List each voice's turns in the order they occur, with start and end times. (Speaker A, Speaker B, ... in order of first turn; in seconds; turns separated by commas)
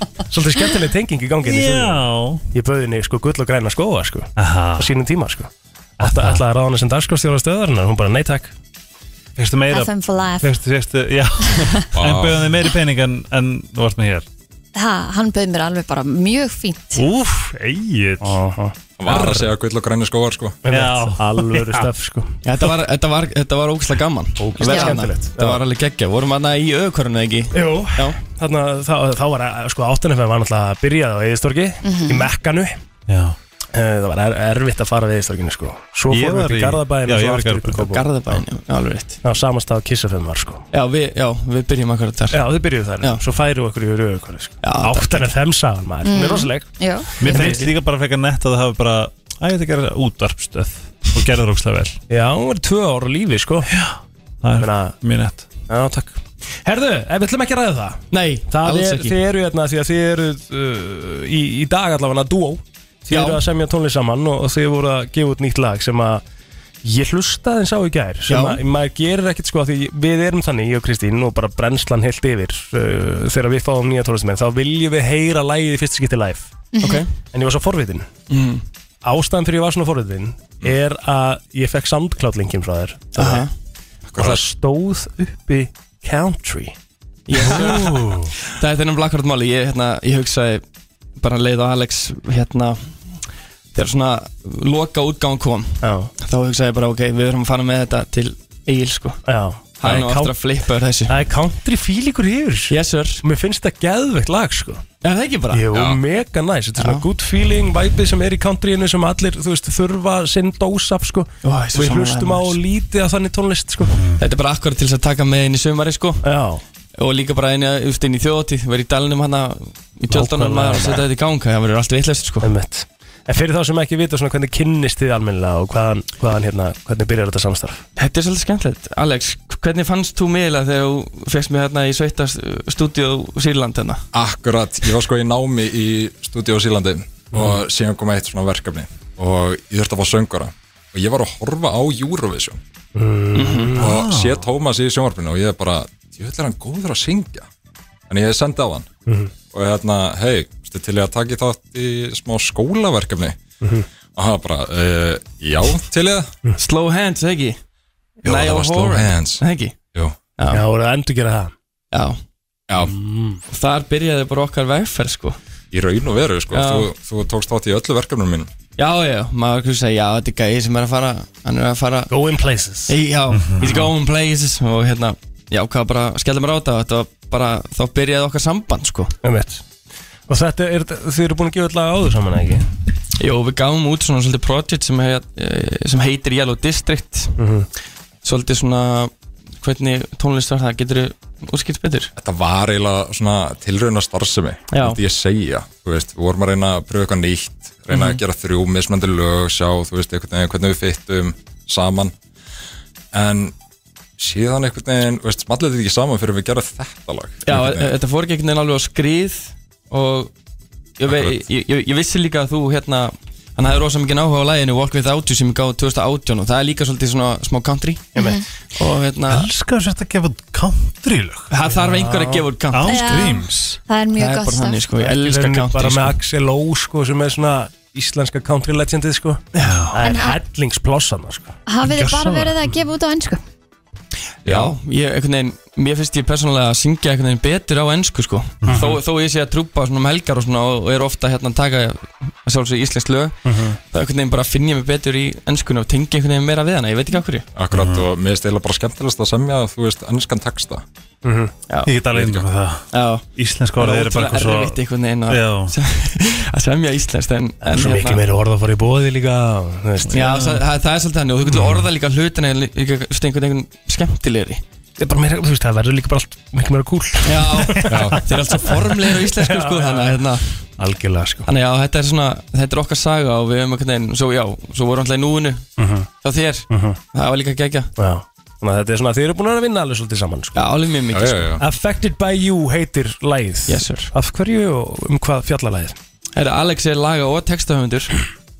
Speaker A: 0.3-8.6, Speaker B: 1.4-2.4, Speaker B: 4.4-4.9, Speaker B: 6.0-6.4, Speaker B: 9.4-14.3, Speaker C: 9.7-10.5, Speaker D: 11.9-12.5, Speaker C: 14.7-17.0, Speaker B: 16.9-18.4, Speaker A: 18.2-19.5, Speaker D: 19.0-20.6, Speaker A: 20.6-22.3, Speaker B: 20.7-21.9, Speaker E: 22.4-28.2, Speaker A: 24.4-25.6, Speaker C: 24.6-25.0, Speaker A: 27.5-32.8, Speaker C: 31.8-32.3, Speaker B: 33.1-33.4, Speaker A: 33.7-38.4, Speaker B: 36.1-38.0, Speaker E: 37.9-39.2, Speaker A: 39.2-40.6, Speaker E: 40.7-42.4, Speaker A: 42.3-46.7, Speaker E: 44.6-45.3, Speaker C: 46.0-47.1, Speaker B: 47.2-52.0, Speaker A: 47.2-47.6, Speaker E: 47.2-47.7, Speaker A: 52.1-53.7, Speaker B: 53.7-55.5, Speaker A: 54.6-54.9, Speaker A: 55.7-66.2, Speaker E: 58.1-59.1, Speaker E: 63.1-63.4, Speaker A: 66.8-78.1, Speaker E: 68.3-68.6, Speaker C: 76.8-77.0, Speaker E: 78.3-78.6, Speaker A: 79.0-83.5, Speaker E: 83.2-83.5, Speaker D: 84.1-84.4, Speaker A: 84.2-86.7, Speaker E: 87.3-90.6, Speaker B: 87.4-88.3, Speaker E: 91.2-93.2, Speaker E: 93.7-99.2, Speaker A: 95.8-96.1, Speaker A: 99.3-100.3, Speaker E: 99.8-101.2, Speaker A: 101.1-104.8, Speaker E: 102.7-103.2, Speaker E: 105.0-105.7, Speaker A: 105.5-114.0, Speaker D: 105.7-106.0, Speaker E: 106.8-107.0, Speaker E: 111.4-112.6, Speaker E: 114.2-116.2, Speaker A: 116.2-116.6, Speaker E: 117.0-122.5, Speaker A: 120.1-121.0, Speaker A: 122.4-127.9, Speaker E: 128.0-134.0, Speaker D: 134.1-142.6, Speaker A: 142.9-143.8, Speaker E: 143.3-143.7, Speaker B: 143.8-144.4, Speaker D: 143.8-147.5, Speaker D: 148.1-148.9, Speaker D: 149.5-153.4, Speaker D: 154.1-156.3, Speaker E: 156.6-157.6, Speaker E: 158.2-159.8, Speaker D: 158.2-160.2, Speaker E: 160.4-160.6, Speaker A: 160.5-161.5, Speaker E: 161.9-162.2, Speaker D: 162.7-162.9, Speaker A: 162.8-163.4, Speaker E: 163.5-165.4, Speaker D: 165.7-168.5, Speaker E: 166.5-166.9, Speaker E: 168.8-172.1, Speaker A: 172.1-173.0, Speaker E: 172.9-179.1, Speaker B: 173.3-173.9, Speaker A: 179.2-179.6, Speaker A: 180.3-182.7, Speaker E: 183.2-187.3, Speaker A: 187.4-187.7, Speaker E: 188.2-192.1, Speaker D: 192.2-202.1, Speaker E: 194.7-195.0, Speaker E: 197.9-198.2, Speaker D: 203.1-203.5, Speaker D: 204.2-207.9, Speaker E: 207.4-210.3, Speaker E: 211.0-218.2, Speaker D: 211.1-211.4, Speaker A: 218.2-218.4, Speaker C: 218.2-218.4, Speaker E: 218.8-219.5, Speaker B: 219.3-221.5, Speaker E: 221.5-223.3, Speaker A: 221.7-222.4, Speaker B: 222.7-223.8, Speaker C: 222.9-224.9, Speaker E: 224.2-226.1, Speaker A: 225.0-231.6, Speaker B: 229.6-230.0, Speaker C: 230.0-230.4, Speaker C: 231.7-233.4, Speaker B: 231.8-232.7, Speaker E: 234.4-243.4, Speaker B: 238.6-239.0, Speaker A: 243.4-243.8, Speaker E: 243.9-247.5, Speaker D: 247.6-250.8, Speaker B: 247.7-248.1, Speaker A: 251.2-251.5, Speaker E: 251.7-252.0, Speaker B: 251.8-255.7, Speaker D: 252.1-252.4, Speaker E: 252.9-253.2, Speaker E: 253.8-258.2, Speaker A: 257.6-260.4, Speaker E: 260.1-264.6, Speaker B: 260.1-260.6, Speaker B: 261.5-261.9, Speaker A: 265.0-267.9, Speaker E: 267.2-270.4, Speaker B: 267.7-267.9, Speaker D: 267.9-268.2, Speaker A: 268.8-271.5, Speaker E: 271.4-275.6, Speaker A: 275.8-276.1, Speaker E: 276.2-277.9, Speaker A: 276.7-277.0, Speaker A: 278.0-280.6, Speaker E: 280.6-281.5, Speaker D: 281.1-281.6, Speaker A: 281.6-286.0, Speaker E: 283.7-284.1, Speaker E: 286.4-288.2